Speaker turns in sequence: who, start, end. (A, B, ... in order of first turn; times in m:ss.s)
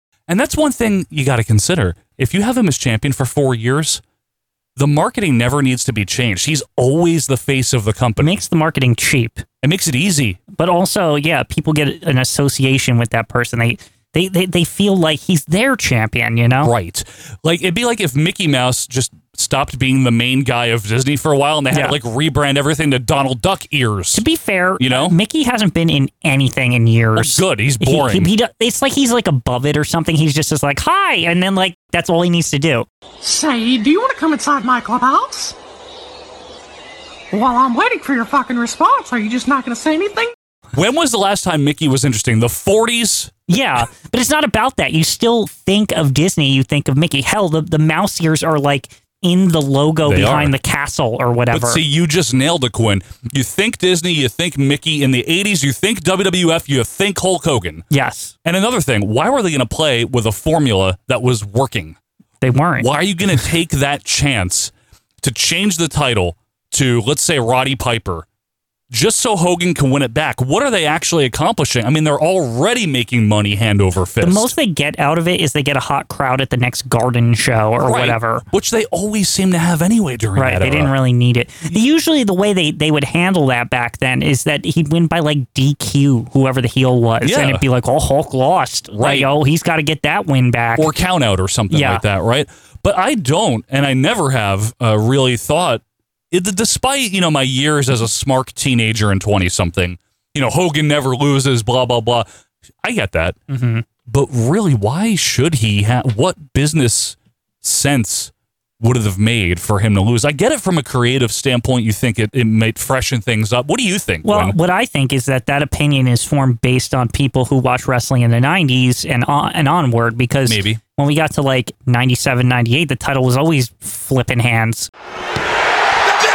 0:00.3-0:04.0 A
0:04.8-0:08.4 A
0:08.2-0:09.4 B
0:09.6-0:10.4 A
0:10.5-0:16.7 B
0:16.6-0:24.2 A
0:21.7-0:22.0 B
0:24.1-0:32.9 B
0:24.8-0:25.2 A
0:27.2-0:28.3 A
0:33.2-0:35.5 C
0:37.3-0:40.3 C
0:40.7-0:43.3 A
0:43.5-0:51.8 B
0:50.0-0:50.5 A
0:51.5-0:57.8 A
0:57.9-0:58.3 B
0:58.4-1:02.0 A
1:02.4-1:02.9 B
1:02.8-1:08.2 A
1:08.9-1:14.5 A
1:14.2-1:18.4 B
1:17.8-1:20.9 A
1:20.4-1:30.9 B
1:27.2-1:27.6 A
1:28.9-1:29.3 A
1:30.8-1:42.3 A
1:31.7-1:32.0 B
1:42.8-1:43.4 A
1:43.5-1:43.8 B
1:44.1-1:54.6 A
1:54.2-2:04.9 B
2:00.4-2:00.8 A